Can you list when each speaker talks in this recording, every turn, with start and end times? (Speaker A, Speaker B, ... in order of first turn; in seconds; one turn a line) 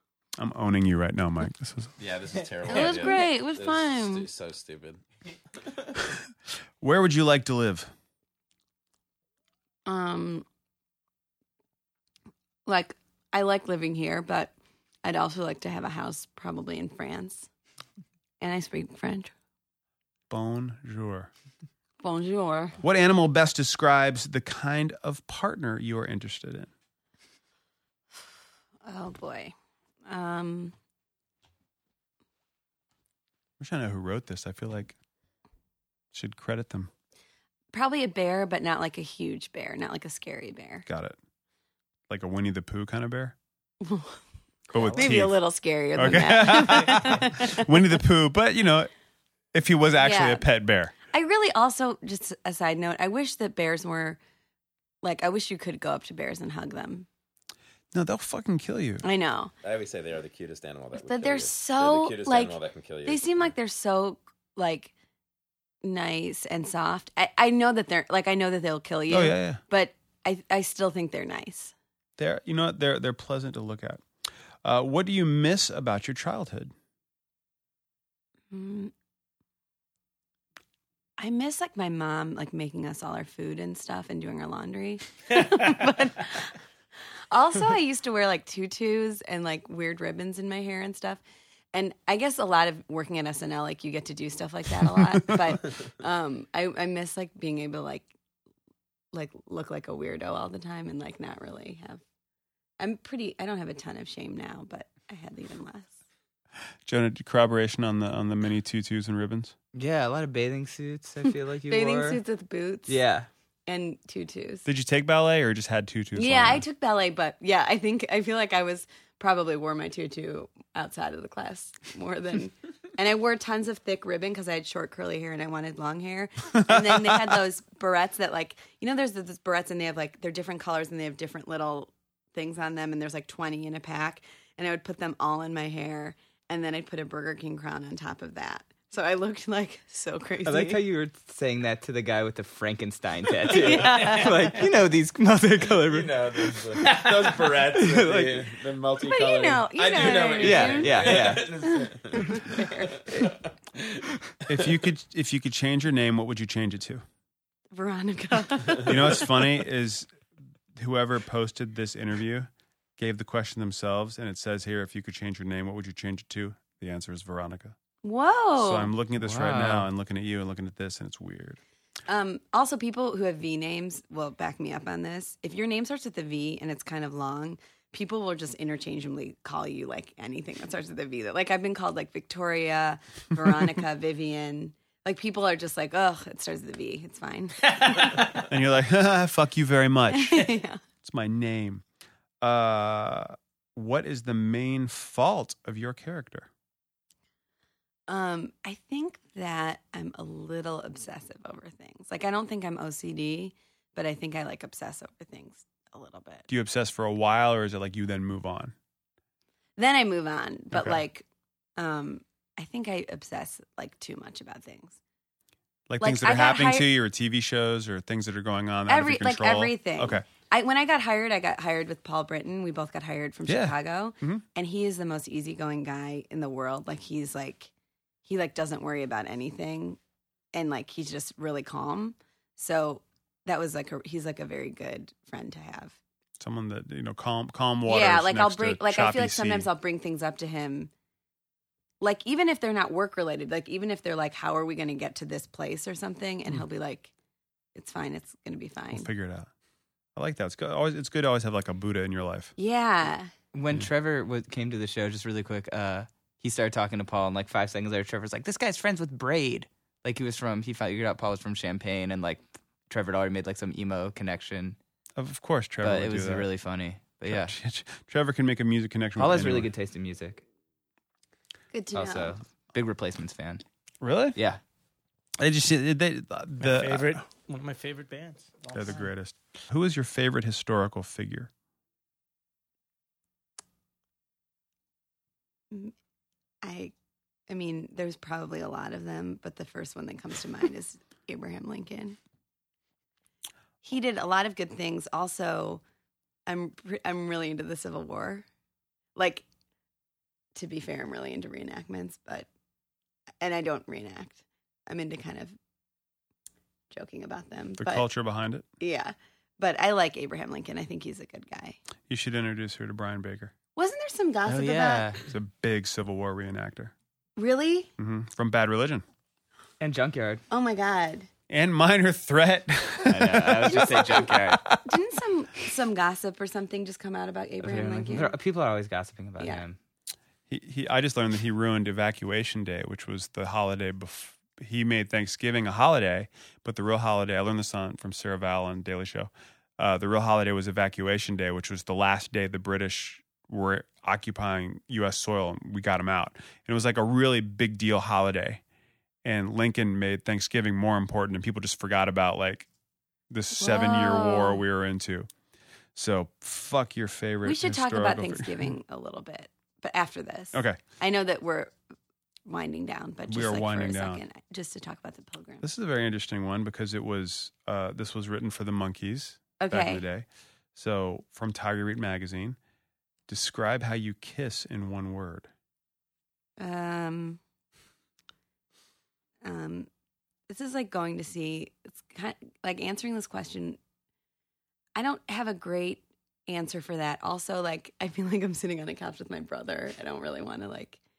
Speaker A: 0.4-1.9
Speaker B: 2.0-5.0
Speaker C: 2.6-4.3
Speaker D: 2.7-3.1
Speaker A: 6.8-7.9
Speaker C: 9.9-10.4
Speaker C: 12.7-14.5
Speaker C: 15.0-17.5
Speaker C: 18.4-19.3
Speaker A: 20.3-21.3
Speaker C: 22.0-22.8
Speaker A: 22.8-26.7
Speaker C: 28.8-29.5
Speaker C: 30.1-30.7
Speaker A: 33.6-35.0
Speaker A: 36.1-36.9
Speaker C: 37.7-40.9
Speaker A: 40.9-41.2
Speaker A: 42.1-43.3
Speaker C: 43.8-44.2
Speaker A: 44.7-45.3
Speaker C: 44.9-47.7
Speaker A: 46.0-48.9
Speaker A: 49.5-50.9
Speaker C: 50.0-50.5
Speaker C: 51.1-54.2
Speaker C: 55.0-57.1
Speaker A: 57.9-59.0
Speaker C: 59.0-59.5
Speaker B: 59.6-63.5
Speaker C: 61.0-64.9
Speaker C: 65.8-71.7
Speaker A: 69.1-69.6
Speaker A: 72.2-74.0
Speaker A: 74.6-76.7
Speaker C: 78.5-78.9
Speaker C: 81.2-86.5
Speaker C: 87.3-91.2
Speaker C: 91.7-98.1
Speaker C: 99.1-102.0
Speaker C: 102.8-105.9
Speaker A: 106.8-109.5
Speaker E: 109.7-112.2
Speaker C: 111.7-113.0
Speaker E: 112.9-113.3
Speaker C: 113.7-114.7
Speaker A: 114.7-116.6
Speaker C: 116.2-140.8
Speaker A: 126.5-127.2
Speaker E: 140.4-148.5
Speaker C: 143.5-144.6
Speaker B: 143.5-143.8
Speaker B: 145.8-154.0
Speaker C: 149.0-153.1
Speaker E: 150.4-151.6
Speaker A: 154.5-157.0
Speaker C: 157.7-159.4
Speaker A: 158.8-160.1
Speaker A: 160.8-167.8
Speaker C: 168.0-168.9
Speaker A: 168.6-171.6
Speaker E: 169.2-169.9
Speaker C: 172.1-187.6
Speaker D: 187.8-188.2
Speaker A: 188.5-191.8
Speaker C: 190.1-190.8
Speaker A: 192.4-196.5
Speaker C: 198.1-206.5
Speaker A: 206.5-208.7
Speaker C: 209.8-211.2
Speaker A: 210.7-211.0
Speaker C: 211.8-214.9
Speaker A: 215.9-220.2
Speaker C: 216.0-216.9
Speaker C: 218.9-227.7
Speaker A: 223.5-224.4
Speaker C: 228.2-230.0
Speaker C: 230.5-235.9
Speaker A: 236.4-239.7
Speaker C: 237.8-240.9
Speaker C: 242.0-247.1
Speaker C: 247.7-249.1
Speaker A: 248.9-249.5
Speaker A: 250.2-252.5
Speaker C: 252.6-253.3
Speaker E: 253.5-264.8
Speaker A: 265.2-266.5
Speaker E: 265.8-267.5
Speaker A: 267.3-269.7
Speaker E: 269.2-270.4
Speaker C: 271.7-272.3
Speaker E: 271.9-273.6
Speaker A: 274.0-274.4
Speaker A: 275.4-277.2
Speaker D: 276.6-279.1
Speaker A: 278.7-281.5
Speaker C: 286.6-286.9
Speaker C: 287.5-292.2
Speaker C: 293.8-295.8
Speaker C: 296.5-298.4
Speaker C: 299.1-299.4
Speaker C: 300.5-302.5
Speaker C: 303.4-305.5
Speaker C: 306.9-308.1
Speaker A: 307.8-308.6
Speaker C: 308.8-311.8
Speaker A: 312.1-313.5
Speaker C: 313.8-315.1
Speaker E: 314.5-315.2
Speaker A: 315.3-316.9
Speaker C: 317.4-317.9
Speaker A: 318.0-319.0
Speaker E: 319.8-320.4
Speaker C: 320.5-321.3
Speaker A: 321.5-324.8
Speaker E: 323.1-324.7
Speaker C: 323.7-324.3
Speaker C: 324.8-328.4
Speaker E: 327.6-329.8
Speaker A: 330.5-348.6
Speaker A: 349.2-352.7
Speaker A: 353.3-355.3
Speaker C: 353.6-354.6
Speaker A: 355.9-358.7
Speaker C: 357.4-361.7
Speaker A: 360.5-360.8
Speaker C: 362.4-365.6
Speaker A: 363.3-364.2
Speaker A: 365.6-372.6
Speaker C: 369.6-370.0
Speaker A: 373.3-375.5
Speaker C: 376.6-377.4
Speaker C: 379.4-379.9
Speaker C: 380.5-383.8
Speaker C: 384.9-391.0